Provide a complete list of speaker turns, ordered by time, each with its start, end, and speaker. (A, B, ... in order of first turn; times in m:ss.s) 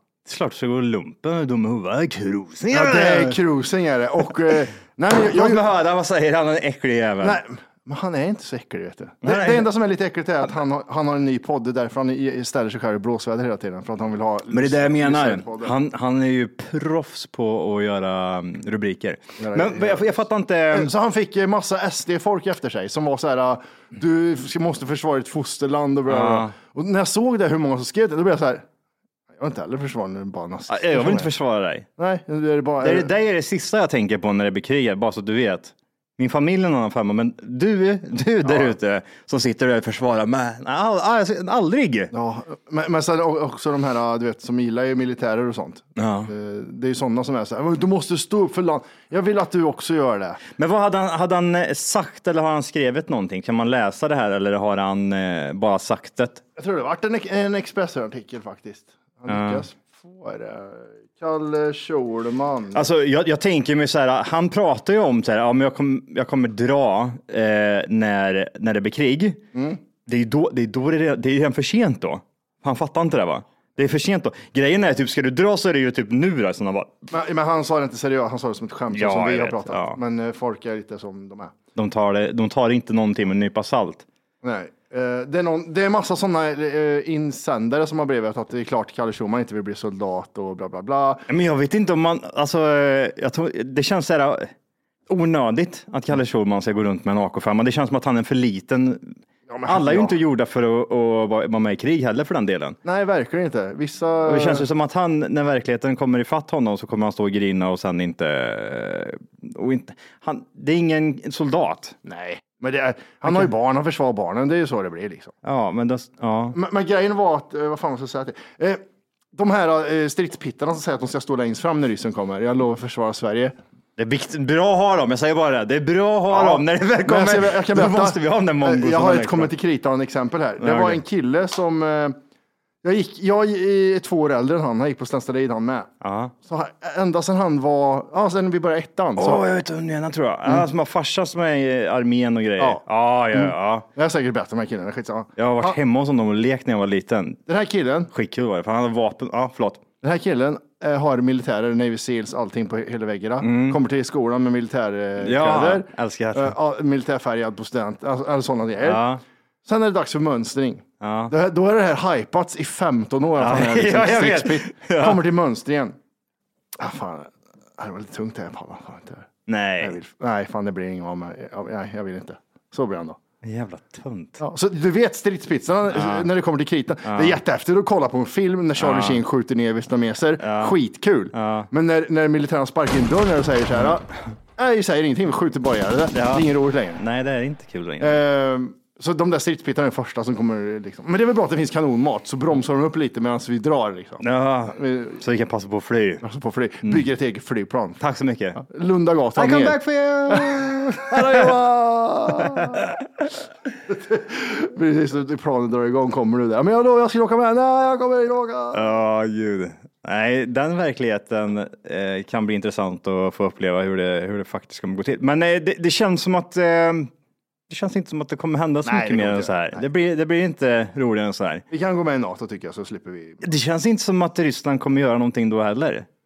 0:00.3-0:03.4 A
0:02.7-0:05.6 B
0:05.3-0:07.4 A
0:07.2-0:15.7 B
0:09.2-0:09.7 A
0:14.5-0:20.9 A
0:19.4-0:20.2 B
0:20.7-0:28.6 B
0:26.1-0:26.5 A
0:29.4-0:31.3 B
0:30.7-0:31.9 A
0:32.0-0:33.1 B
0:32.8-0:42.1 A
0:38.4-0:38.7 B
0:42.1-0:50.4 B
0:46.0-0:46.3 A
0:50.6-0:56.4 A
0:56.6-1:02.8 B
0:59.3-0:59.6 A
1:02.8-1:09.4 A
1:09.6-1:09.8 B
1:10.1-1:16.9 A
1:17.1-1:21.5 B
1:18.9-1:20.0 A
1:21.8-1:24.0 A
1:24.4-1:31.2 B
1:31.3-1:34.5 A
1:35.1-1:39.1 A
1:39.5-1:40.2 B
1:39.7-1:42.8 A
1:42.8-1:44.6 B
1:44.3-1:52.0 A
1:52.0-1:55.3 B
1:55.4-1:56.6 A
1:56.5-1:58.8 B
1:59.3-2:03.6 B
2:04.0-2:09.5 A
2:06.3-2:12.2 B
2:10.6-2:11.0 A
2:12.8-2:15.9 B
2:16.0-2:16.3 A
2:16.4-2:19.4 B
2:19.2-2:23.9 A
2:23.3-2:25.8 B
2:25.4-2:27.4 A
2:27.5-2:28.1 B
2:28.1-2:29.8 A
2:30.0-2:39.0 B
2:33.4-2:33.8 A
2:35.2-2:36.6 A
2:38.8-2:39.2 A
2:39.6-2:46.0 B
2:41.0-2:41.3 A
2:43.4-2:45.2 A
2:46.8-2:49.3 B
2:49.5-2:50.0 A
2:49.8-2:53.2 B
2:53.4-2:54.4 A
2:54.4-3:04.1 B
2:55.9-2:56.3 A
2:57.1-2:57.4 A
2:58.8-2:59.2 A
3:00.4-3:00.8 A
3:01.3-3:01.7 A
3:04.6-3:07.0 B
3:06.1-3:08.2 A
3:08.0-3:15.2 B
3:14.2-3:16.2 A
3:16.2-3:18.0 B
3:18.0-3:18.6 A
3:18.6-3:19.8 B
3:19.4-3:21.5 A
3:20.3-3:22.9 B
3:23.9-3:28.8 B
3:28.7-3:37.1 A
3:37.7-3:41.6 A
3:38.8-3:39.8 B
3:41.7-3:43.4 B
3:43.4-3:46.1 A